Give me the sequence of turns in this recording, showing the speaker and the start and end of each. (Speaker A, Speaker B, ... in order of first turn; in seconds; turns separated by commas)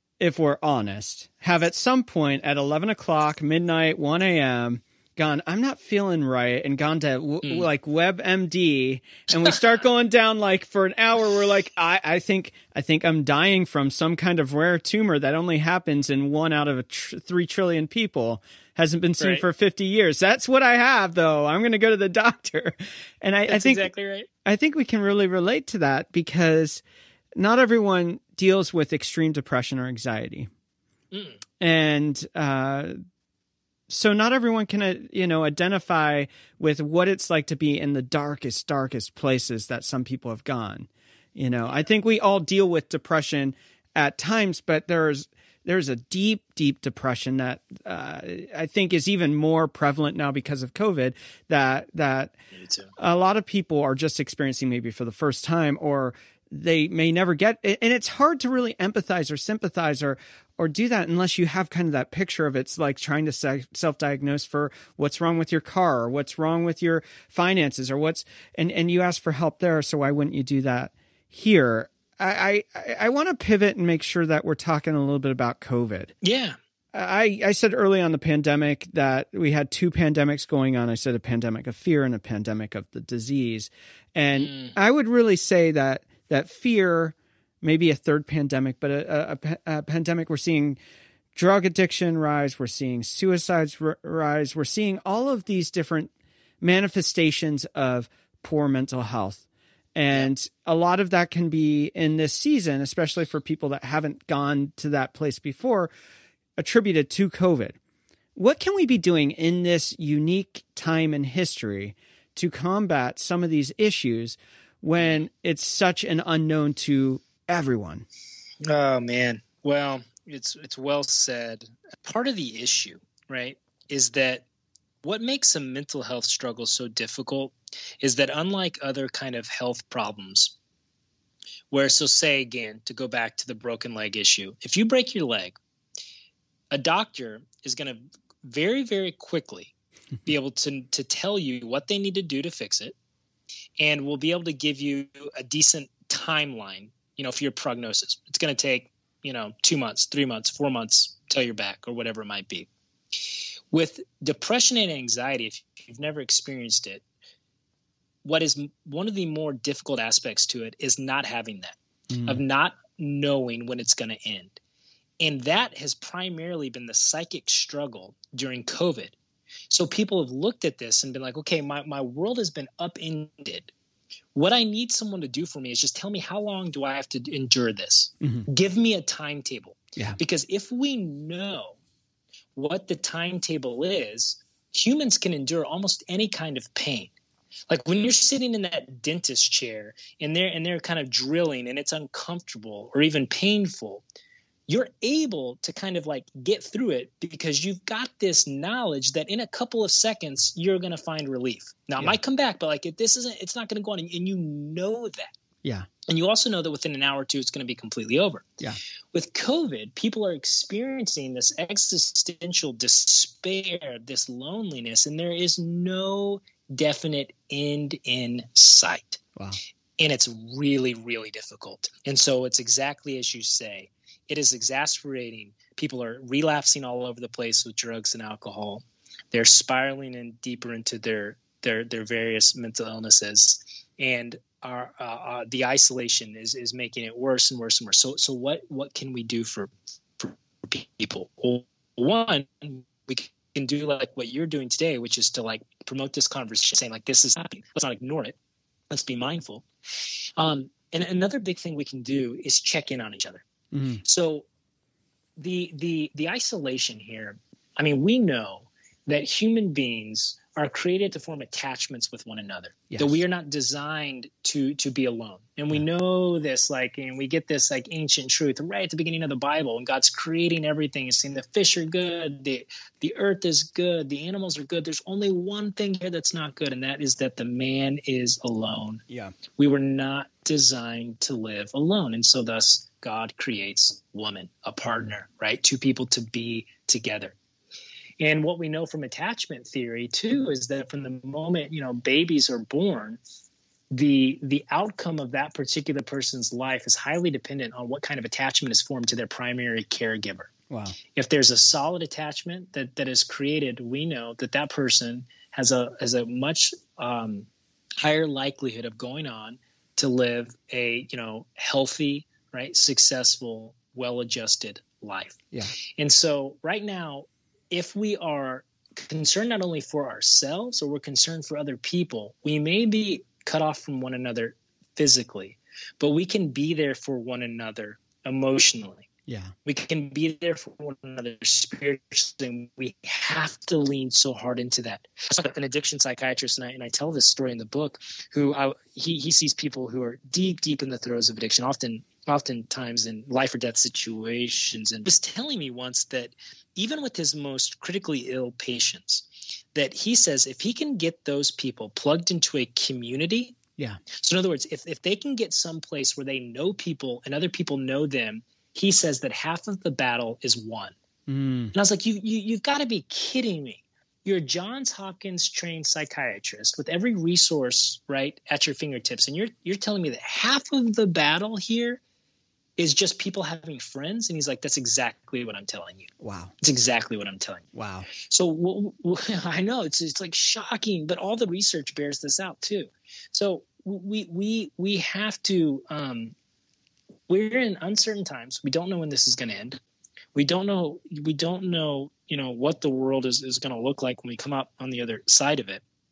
Speaker A: 0.2-23.9, Speaker B: 19.2-19.4, Speaker B: 23.5-24.3, Speaker A: 24.4-26.8, Speaker A: 27.4-30.5, Speaker B: 31.1-31.4, Speaker A: 31.6-33.0, Speaker A: 33.9-52.3, Speaker B: 52.5-52.9, Speaker A: 53.0-76.1, Speaker B: 76.2-76.6, Speaker A: 76.9-90.8, Speaker B: 84.3-84.8, Speaker A: 91.3-105.9, Speaker A: 106.6-107.8, Speaker A: 108.3-118.1, Speaker B: 118.7-124.5, Speaker B: 125.0-130.5, Speaker B: 131.7-135.6, Speaker B: 136.7-139.7, Speaker B: 140.2-142.9, Speaker B: 143.8-152.7, Speaker B: 153.2-157.0, Speaker B: 158.2-164.6, Speaker A: 162.1-162.4, Speaker B: 165.2-169.2, Speaker B: 169.7-173.7, Speaker B: 174.3-181.8, Speaker A: 178.2-178.5, Speaker B: 182.5-187.1, Speaker B: 187.7-194.0, Speaker B: 194.7-205.3, Speaker B: 206.1-208.5, Speaker B: 209.1-219.2, Speaker B: 220.0-248.4, Speaker B: 248.9-253.4, Speaker A: 253.7-254.0, Speaker B: 254.0-254.4, Speaker B: 255.4-287.4, Speaker A: 262.9-263.2, Speaker B: 288.2-293.2, Speaker B: 293.9-300.5, Speaker A: 300.7-301.0, Speaker B: 301.1-307.5, Speaker B: 308.0-329.1, Speaker A: 329.3-329.5, Speaker B: 329.6-353.6, Speaker B: 354.1-360.9, Speaker A: 361.3-361.7, Speaker B: 361.7-372.0, Speaker B: 372.8-376.1, Speaker A: 376.2-376.5, Speaker B: 376.6-386.3, Speaker A: 377.7-378.1, Speaker B: 387.3-389.8, Speaker B: 390.3-395.8